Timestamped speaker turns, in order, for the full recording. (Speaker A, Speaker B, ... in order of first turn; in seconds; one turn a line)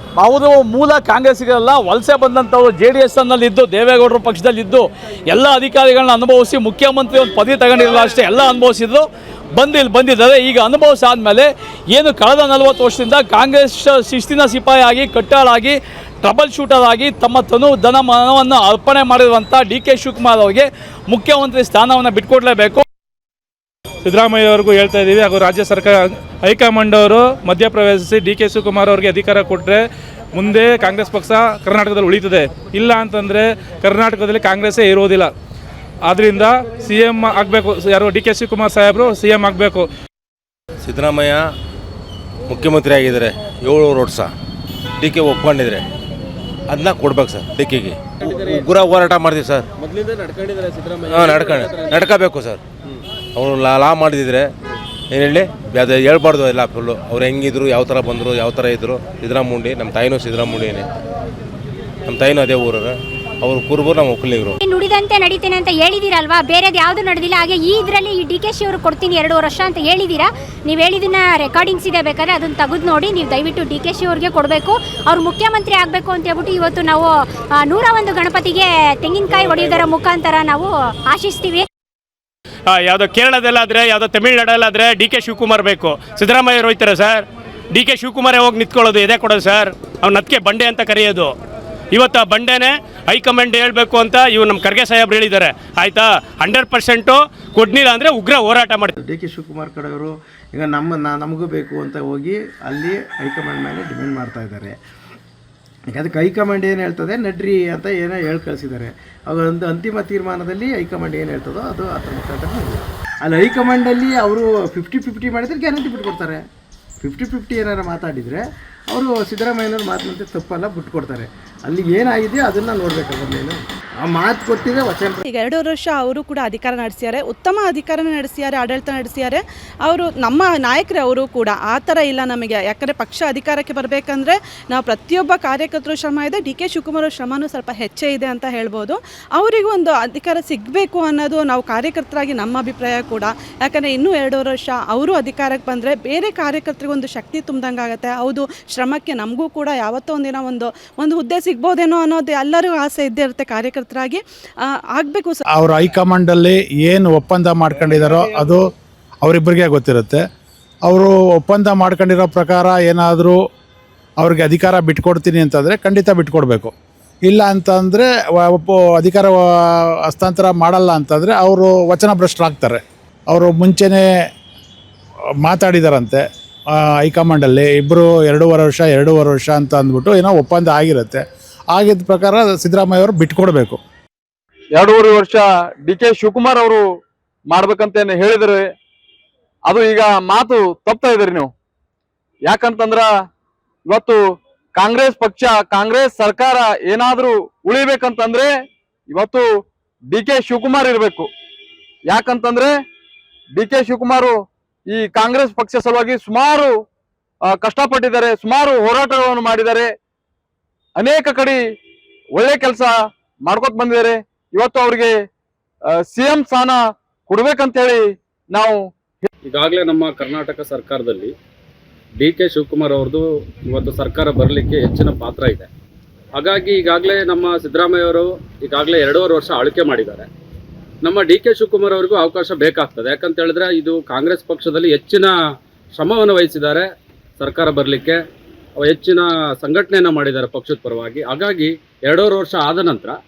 Speaker A: 0.2-22.8
Speaker B: 24.0-29.8
Speaker B: 30.4-35.3
Speaker B: 36.0-39.9
Speaker C: 40.8-41.5
Speaker C: 42.5-44.3
Speaker C: 45.0-45.9
Speaker C: 46.7-49.7
Speaker C: 50.9-52.6
Speaker C: 53.3-54.5
Speaker C: 55.1-60.9
Speaker C: 62.1-64.5
Speaker D: 64.6-81.7
Speaker E: 82.8-87.2
Speaker E: 87.8-91.3
Speaker E: 92.0-96.0
Speaker E: 96.8-98.8
Speaker F: 99.0-104.8
Speaker F: 105.9-116.4
Speaker F: 117.0-125.2
Speaker G: 125.4-154.2
Speaker G: 155.0-155.3
Speaker H: 155.6-158.6
Speaker H: 159.2-160.2
Speaker H: 160.9-163.4
Speaker H: 164.2-166.7
Speaker H: 167.3-169.4
Speaker H: 170.1-174.1
Speaker H: 175.4-176.2
Speaker H: 177.0-183.8
Speaker I: 184.8-186.9
Speaker I: 187.5-188.7
Speaker I: 189.7-191.5
Speaker I: 192.4-193.1
Speaker I: 193.9-194.2
Speaker I: 194.8-198.5
Speaker I: 199.1-199.5
Speaker I: 200.1-201.3
Speaker I: 202.1-202.7
Speaker I: 203.5-204.4
Speaker I: 204.9-206.8
Speaker I: 207.4-209.9
Speaker I: 211.0-211.6
Speaker I: 212.3-215.2
Speaker I: 215.9-219.3
Speaker J: 219.5-221.3
Speaker J: 222.2-225.7
Speaker J: 226.4-230.3
Speaker J: 231.0-235.3
Speaker J: 236.0-236.8
Speaker J: 237.4-238.2
Speaker J: 238.8-243.2